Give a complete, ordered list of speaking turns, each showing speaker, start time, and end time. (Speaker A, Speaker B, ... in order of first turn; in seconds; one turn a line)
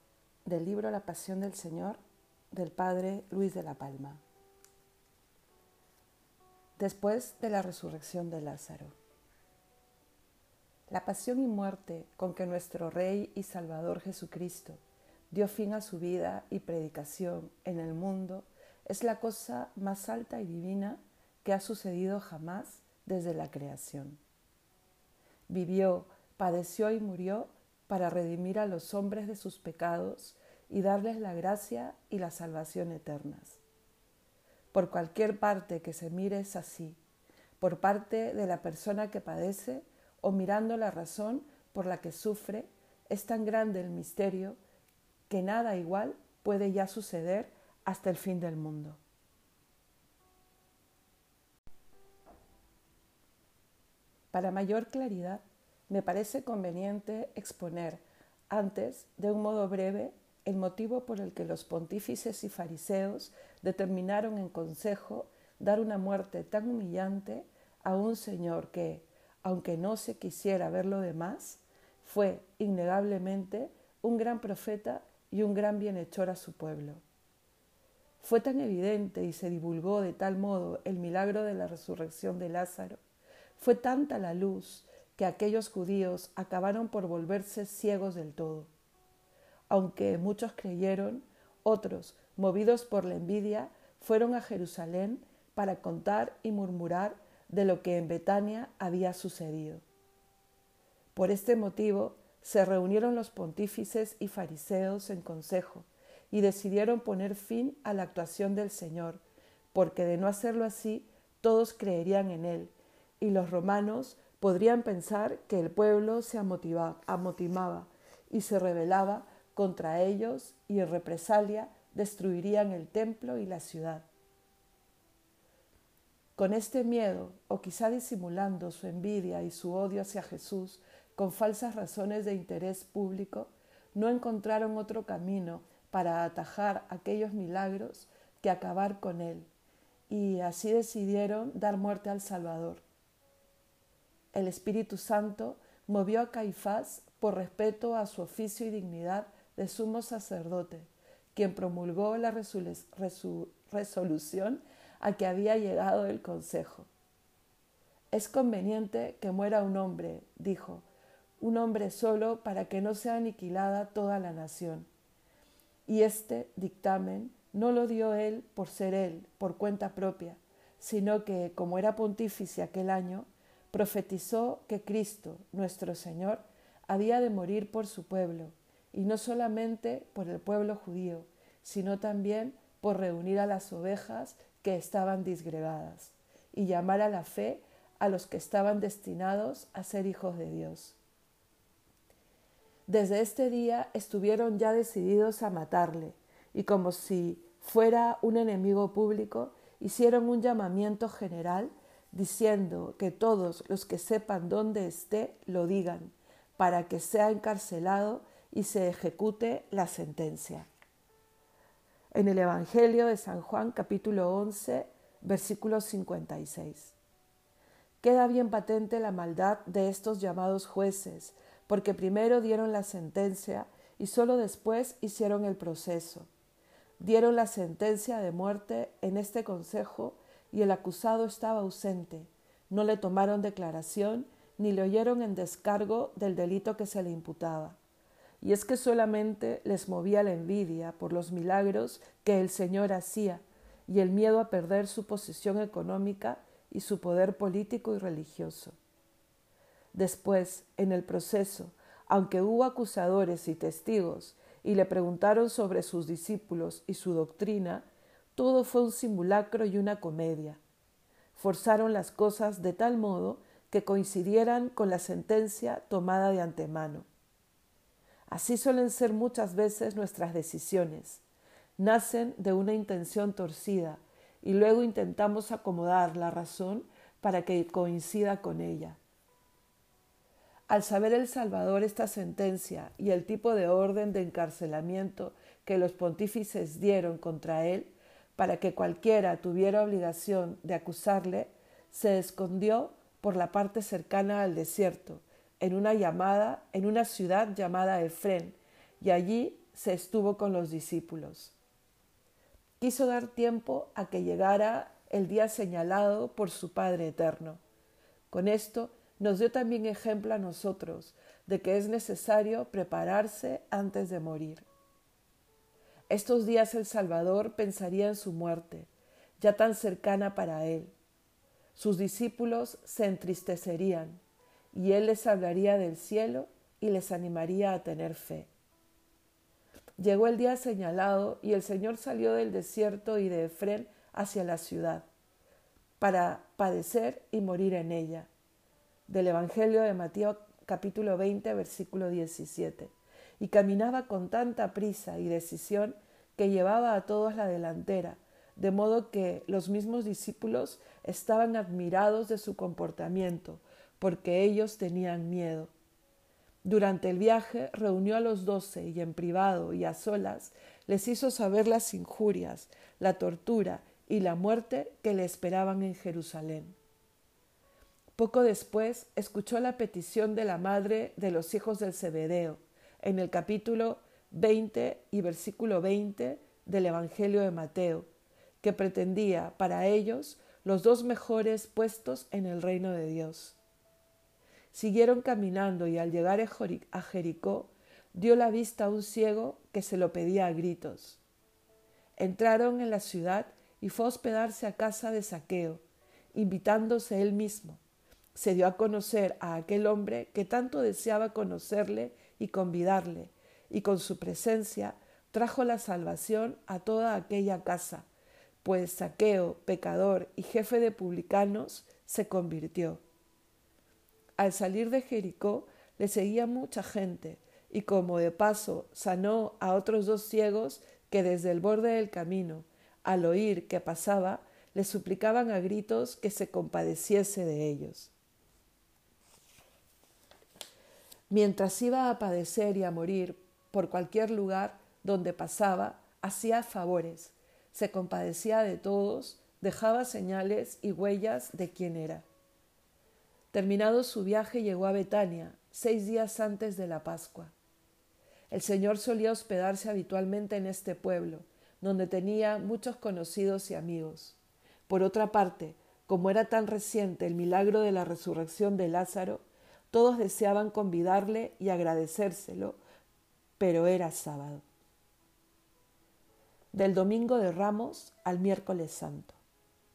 Speaker A: 0.5-2.0
Speaker A: 2.5-4.2
Speaker A: 6.8-8.9
Speaker A: 10.9-24.2
Speaker A: 25.5-33.6
Speaker A: 34.7-37.0
Speaker A: 37.6-44.6
Speaker A: 45.3-49.0
Speaker A: 54.3-77.0
Speaker A: 78.2-83.0
Speaker A: 83.6-88.7
Speaker A: 89.7-99.8
Speaker A: 101.1-109.2
Speaker A: 109.7-124.0
Speaker A: 126.3-139.5
Speaker A: 140.1-142.8
Speaker A: 144.3-156.9
Speaker A: 158.1-160.8
Speaker A: 161.4-164.9
Speaker A: 165.9-191.0
Speaker A: 192.9-210.7
Speaker A: 212.1-216.9
Speaker A: 218.0-226.3
Speaker A: 227.0-237.8
Speaker A: 238.4-248.8
Speaker A: 249.9-260.6
Speaker A: 261.3-267.1
Speaker A: 268.3-271.2
Speaker A: 271.8-279.0
Speaker A: 280.7-301.5
Speaker A: 302.8-307.6
Speaker A: 308.3-314.6
Speaker A: 316.1-318.9
Speaker A: 319.4-320.9
Speaker A: 321.7-324.2
Speaker A: 324.7-328.5
Speaker A: 330.0-335.1
Speaker A: 336.0-338.3
Speaker A: 339.1-355.7
Speaker A: 356.6-366.8
Speaker A: 368.1-378.1
Speaker A: 378.6-383.6
Speaker A: 384.7-391.2
Speaker A: 392.2-395.8
Speaker A: 396.3-397.8
Speaker A: 398.3-408.1
Speaker A: 408.6-413.0
Speaker A: 414.4-428.1
Speaker A: 431.3-442.2
Speaker A: 443.5-447.5
Speaker A: 448.5-462.8
Speaker A: 463.6-464.6
Speaker A: 466.7-469.4